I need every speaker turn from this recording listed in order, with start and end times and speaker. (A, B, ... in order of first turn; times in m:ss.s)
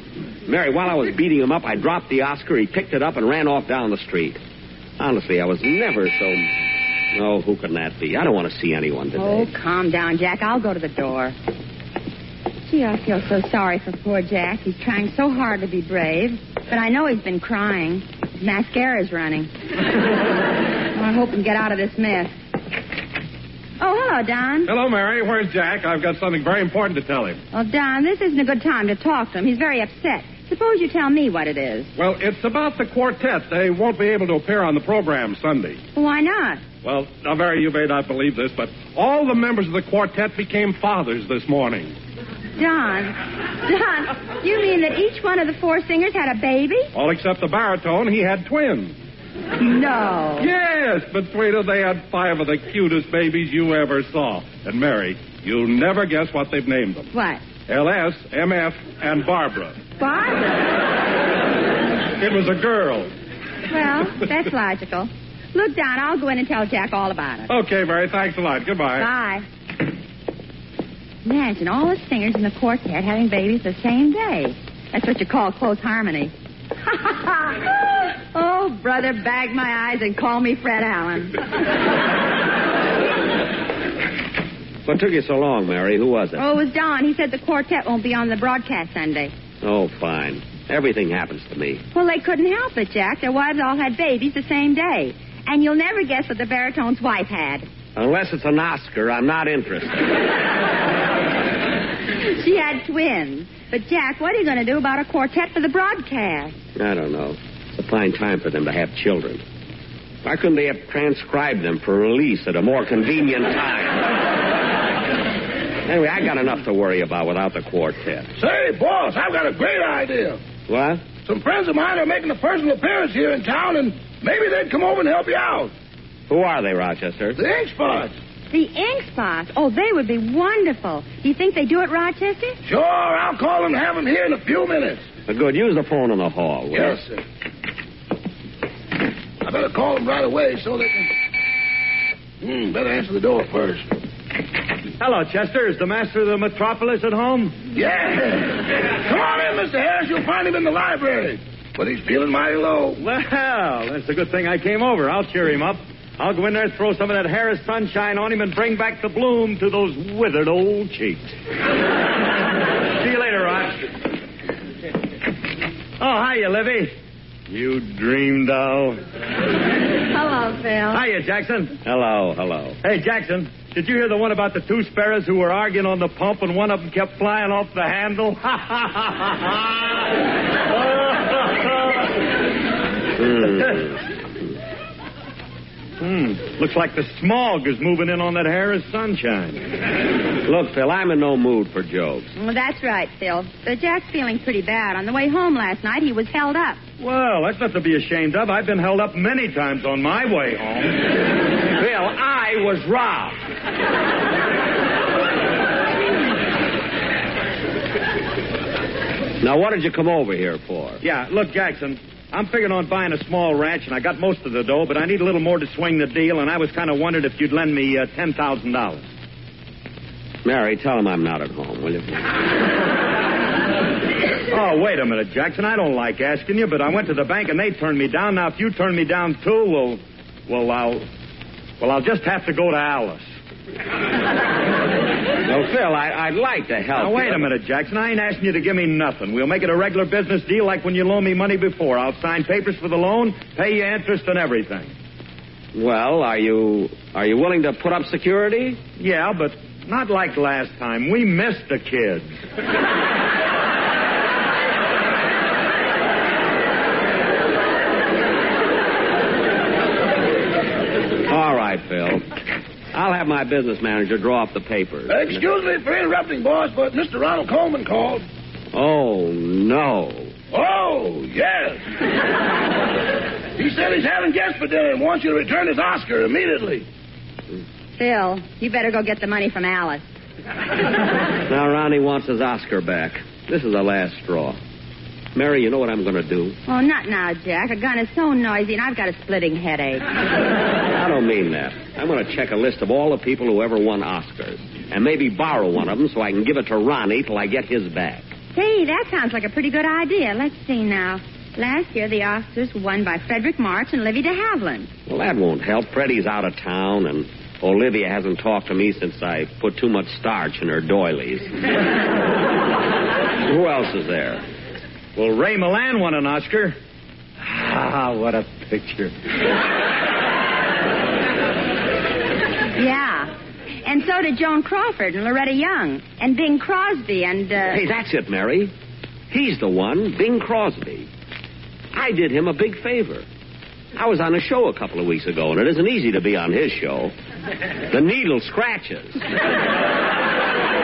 0:00.4-0:04.4 A
0:05.0-0:06.5 A
0:07.1-0:09.5 A
0:09.2-0:11.3 B
0:12.6-0:19.5 B
0:20.9-0:22.3 B
0:23.8-0:24.7 B
0:24.6-0:27.4 C
0:27.5-0:31.9 B
0:32.0-0:35.8 C
0:36.0-0:36.6 B
0:36.8-0:41.9 C
0:42.6-0:46.9 B
0:46.9-0:48.9 C
0:49.6-0:50.5 B
0:50.4-0:57.1 C
0:57.1-0:57.4 B
0:57.7-0:59.8 C
1:00.0-1:00.7 B
1:02.2-1:03.1 C
1:03.7-1:07.5 B
1:07.5-1:09.1 C
1:09.0-1:09.4 B
1:11.2-1:16.3 B
1:16.8-1:21.6 B
1:24.8-1:26.4 A
1:26.4-1:29.3 B
1:29.6-1:31.8 A
1:31.9-1:37.7 B
1:38.0-1:40.2 A
1:42.2-1:46.5 B
1:46.8-1:49.4 A
1:50.2-1:54.2 A
1:55.8-1:58.3 A
1:58.4-2:00.4 D
2:00.7-2:01.0 A
2:01.2-2:05.7 D
2:06.3-2:07.4 A
2:07.4-2:08.1 D
2:08.5-2:12.6 B
2:12.6-2:15.0 D
2:15.3-2:17.0 A
2:16.7-2:17.2 D
2:19.4-2:21.1 D
2:22.4-2:23.9 D
2:25.0-2:27.6 E
2:27.7-2:33.0 D
2:33.0-2:41.3 E
2:43.0-2:43.8 E
2:46.0-2:46.9 E
2:47.5-2:49.0 E
2:50.1-2:51.0 B
2:50.9-2:51.7 E
2:51.8-2:52.8 A
2:52.8-3:00.0 E
3:00.8-3:02.0 E
3:03.2-3:04.0 A
3:06.0-3:09.6 E
3:10.4-3:12.3 A
3:12.4-3:16.8 B
3:17.0-3:21.0 E
3:21.8-3:23.4 A
3:29.4-3:31.0 A
3:31.0-3:39.0 E
3:40.4-3:42.2 A
3:44.5-3:51.0 E
3:51.8-3:53.2 E
3:55.4-3:57.5 A
3:56.9-4:04.9 E
4:05.7-4:08.8 A
4:09.0-4:12.4 E
4:21.3-4:22.3 A
4:22.9-4:25.4 A
4:25.1-4:28.2 D
4:28.7-4:30.3 A
4:30.5-4:31.8 D
4:33.6-4:36.8 D
4:38.0-4:40.0 B
4:41.5-4:44.6 A
4:45.3-4:46.6 A
4:46.7-4:50.0 B
4:50.9-4:58.2 A
4:58.5-5:04.9 B
5:05.1-5:11.6 A
5:13.4-5:14.4 A
5:15.2-5:16.8 E
5:17.4-5:19.1 E
5:22.8-5:23.3 B
5:23.8-5:27.8 B
5:27.7-5:28.7 A
5:29.3-5:31.1 A
5:31.9-5:33.2 A
5:33.9-5:37.1 A
5:37.9-5:39.2 A